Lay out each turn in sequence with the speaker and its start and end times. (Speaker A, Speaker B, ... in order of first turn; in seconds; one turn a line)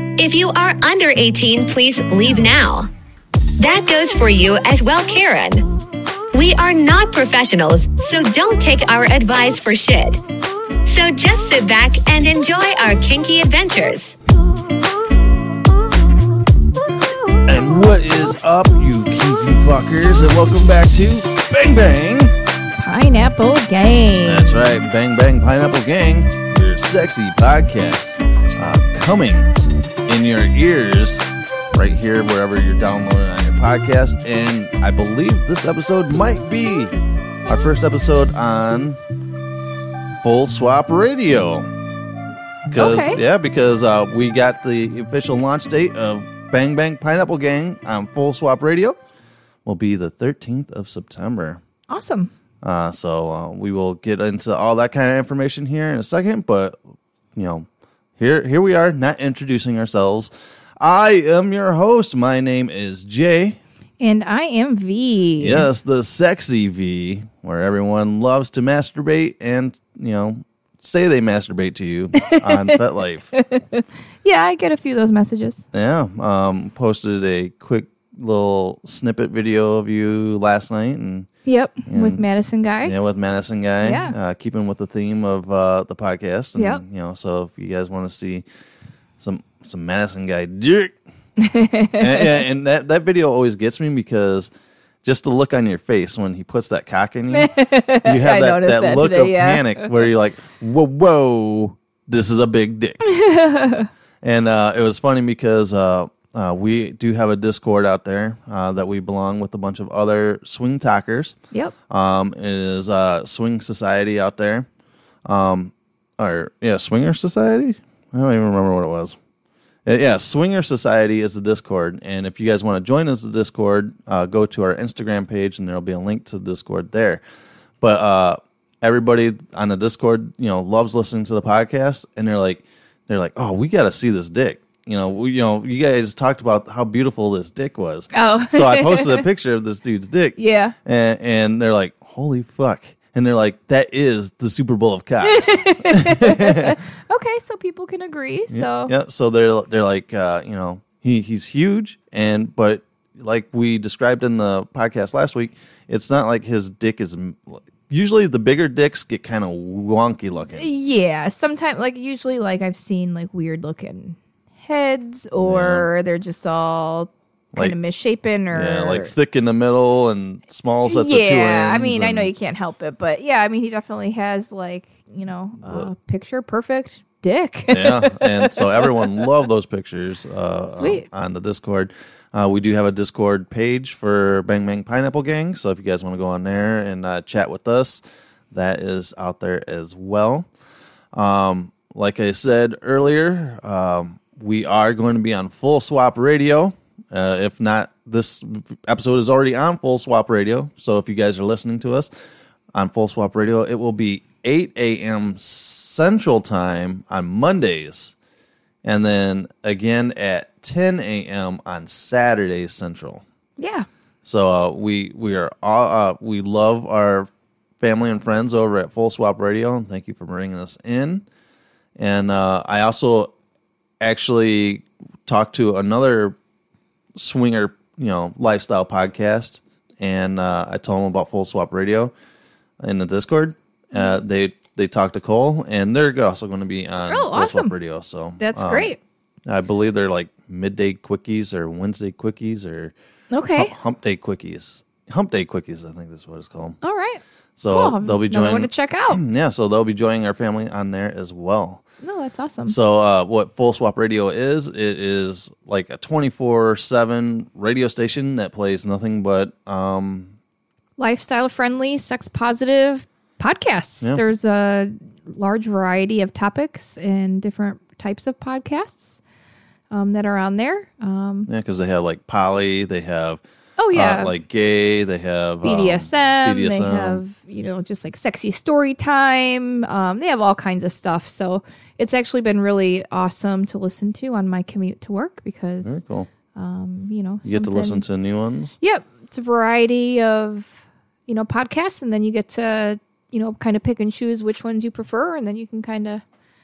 Speaker A: 0.2-2.9
Speaker A: 3.6-5.7
Speaker A: 6.3-10.2
Speaker A: 10.8-14.1
Speaker B: 17.4-22.3
Speaker C: 22.8-24.5
Speaker B: 24.2-29.5
Speaker B: 30.1-36.9
Speaker B: 37.5-39.0
Speaker B: 40.2-41.7
Speaker B: 42.7-49.0
Speaker C: 42.8-43.2
Speaker B: 49.6-51.6
Speaker C: 51.9-52.3
Speaker B: 52.6-56.8
Speaker B: 57.3-57.6
Speaker B: 58.2-63.6
Speaker C: 64.0-65.7
Speaker B: 65.4-73.3
Speaker C: 72.2-72.8
Speaker C: 73.3-75.7
Speaker B: 75.7-81.3
Speaker C: 81.5-82.9
Speaker B: 81.9-82.2
Speaker B: 82.8-88.4
Speaker C: 83.8-84.1
Speaker C: 86.5-86.8
Speaker B: 89.2-91.0
Speaker C: 91.4-92.4
Speaker B: 92.0-94.5
Speaker B: 95.0-97.5
Speaker C: 97.3-99.9
Speaker B: 98.0-103.0
Speaker C: 103.0-103.9
Speaker B: 104.2-111.3
Speaker B: 111.9-114.7
Speaker B: 115.2-119.2
Speaker B: 119.8-127.2
Speaker B: 127.8-146.8
Speaker C: 138.1-139.2
Speaker C: 140.4-140.7
Speaker C: 145.2-148.9
Speaker B: 148.5-160.7
Speaker C: 160.5-169.1
Speaker B: 165.4-165.9
Speaker B: 168.5-172.3
Speaker C: 170.8-179.2
Speaker B: 175.6-175.9
Speaker B: 177.7-190.5
Speaker C: 180.7-181.1
Speaker B: 191.1-202.1
Speaker B: 202.7-208.1
Speaker B: 208.8-213.2
Speaker C: 213.6-213.8
Speaker B: 214.2-217.3
Speaker B: 217.8-221.2
Speaker B: 222.0-223.3
Speaker B: 224.0-226.3
Speaker B: 227.2-232.1
Speaker B: 232.8-238.9
Speaker C: 237.1-237.7
Speaker C: 238.4-239.0
Speaker B: 239.4-242.9
Speaker C: 243.3-243.7
Speaker B: 243.6-246.8
Speaker C: 246.8-249.2
Speaker B: 247.6-251.8
Speaker C: 252.0-252.7
Speaker B: 252.7-260.3
Speaker C: 261.0-269.2
Speaker C: 269.9-271.5
Speaker B: 271.5-273.4
Speaker C: 273.8-274.3
Speaker B: 273.9-277.2
Speaker C: 275.6-286.0
Speaker B: 285.8-286.3
Speaker C: 286.5-288.0
Speaker B: 287.4-288.7
Speaker C: 288.8-296.2